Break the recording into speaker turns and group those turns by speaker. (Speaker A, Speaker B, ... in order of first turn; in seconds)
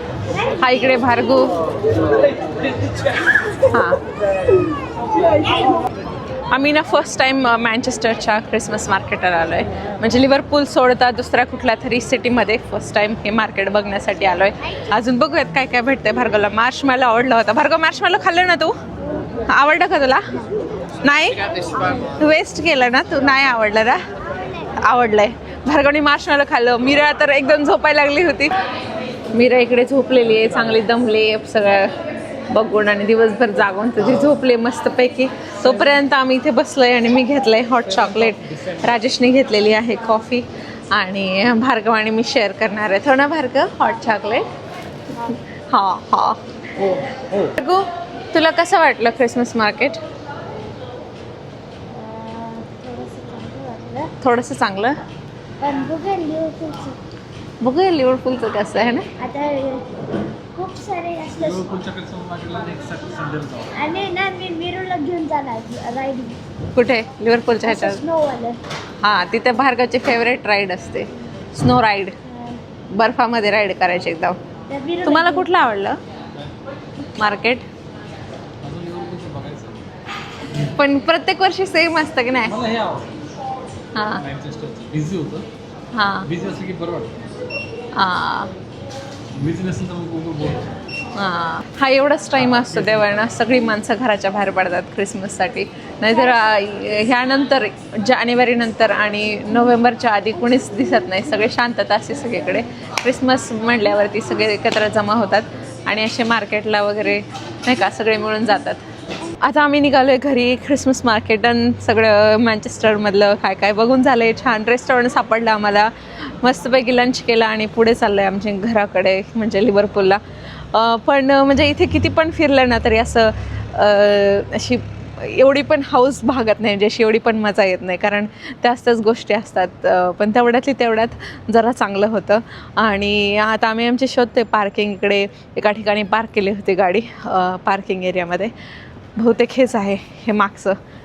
Speaker A: 0.6-1.6, 3.6-4.0, 6.5-18.7, 19.5-20.3, 21.0-24.0, 24.8-28.5, 29.3-32.0, 32.5-44.5, 45.7-46.4, 47.4-50.0, 54.2-55.0, 57.6-59.1, 66.7-68.0, 69.0-72.1, 72.9-74.4, 75.0-76.0, 77.2-77.6, 80.6-82.5, 83.9-84.2, 85.9-86.3, 88.0-88.5, 91.2-108.8, 109.4-120.2, 120.7-138.5, 139.2-140.8
Speaker B: 46.8-47.5, 61.4-63.7, 78.6-79.8, 82.5-83.1, 84.2-85.5, 86.2-87.2, 89.3-90.7, 92.6-93.2
Speaker C: 51.9-54.1, 55.6-57.0, 59.2-59.9, 60.5-61.6, 63.7-66.4, 67.7-68.6, 72.2-72.6, 74.7-75.5